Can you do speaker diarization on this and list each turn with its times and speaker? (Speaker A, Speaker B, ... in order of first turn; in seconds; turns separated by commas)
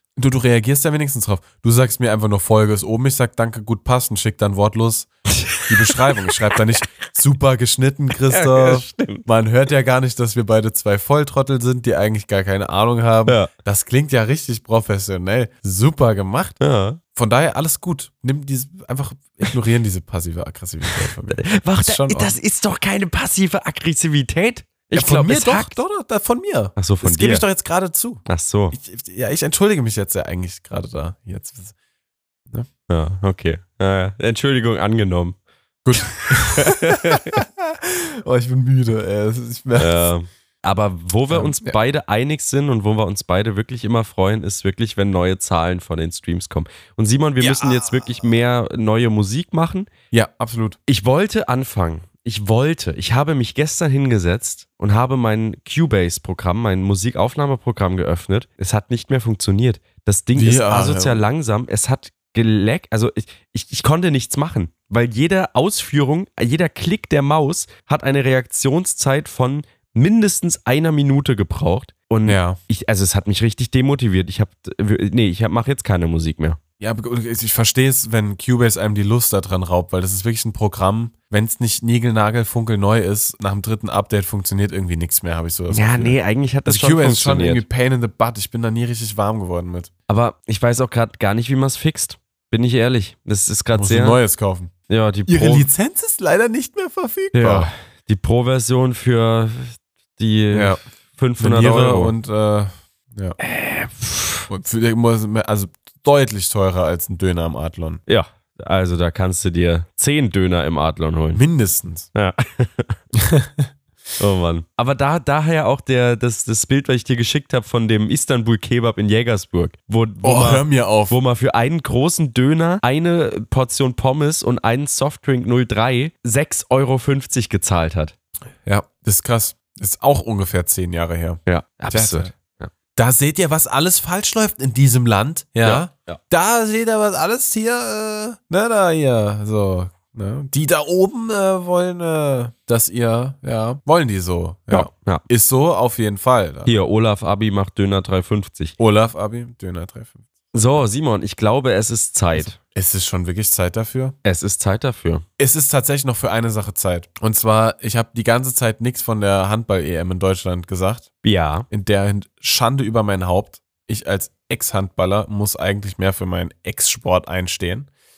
Speaker A: 0.2-5.1, Speaker B: 5.4-6.2, Speaker A: 5.6-16.6, Speaker B: 8.3-9.3, Speaker B: 16.6-17.0, Speaker A: 17.1-22.4, Speaker B: 21.0-25.8, Speaker A: 24.9-31.8, Speaker B: 26.8-27.4, Speaker B: 28.3-28.8, Speaker B: 32.9-35.4, Speaker A: 35.8-40.1, Speaker B: 35.9-37.4, Speaker B: 39.8-49.9, Speaker A: 41.3-41.8, Speaker A: 47.4-48.1, Speaker A: 50.1-50.8, Speaker B: 50.9-76.6, Speaker A: 60.4-61.2, Speaker A: 72.3-72.6, Speaker A: 76.8-89.9, Speaker B: 85.7-87.6, Speaker B: 90.1-94.2, Speaker A: 93.7-94.7, Speaker B: 94.9-95.7, Speaker A: 95.3-97.7, Speaker B: 97.3-102.1, Speaker A: 100.5-100.8, Speaker A: 101.4-103.4, Speaker B: 103.4-104.5, Speaker A: 104.5-108.0, Speaker B: 108.1-111.4, Speaker A: 111.3-112.1, Speaker B: 112.1-113.0, Speaker A: 113.2-113.7, Speaker B: 114.2-128.1, Speaker A: 120.2-121.2, Speaker A: 128.7-132.3, Speaker B: 131.5-132.7, Speaker A: 133.0-146.7, Speaker B: 135.6-136.2, Speaker B: 144.7-145.2, Speaker B: 146.7-148.8, Speaker A: 148.8-150.2, Speaker B: 150.5-152.6, Speaker A: 152.3-154.2, Speaker B: 154.2-155.2, Speaker A: 155.4-161.1, Speaker B: 161.2-161.7, Speaker A: 161.7-167.9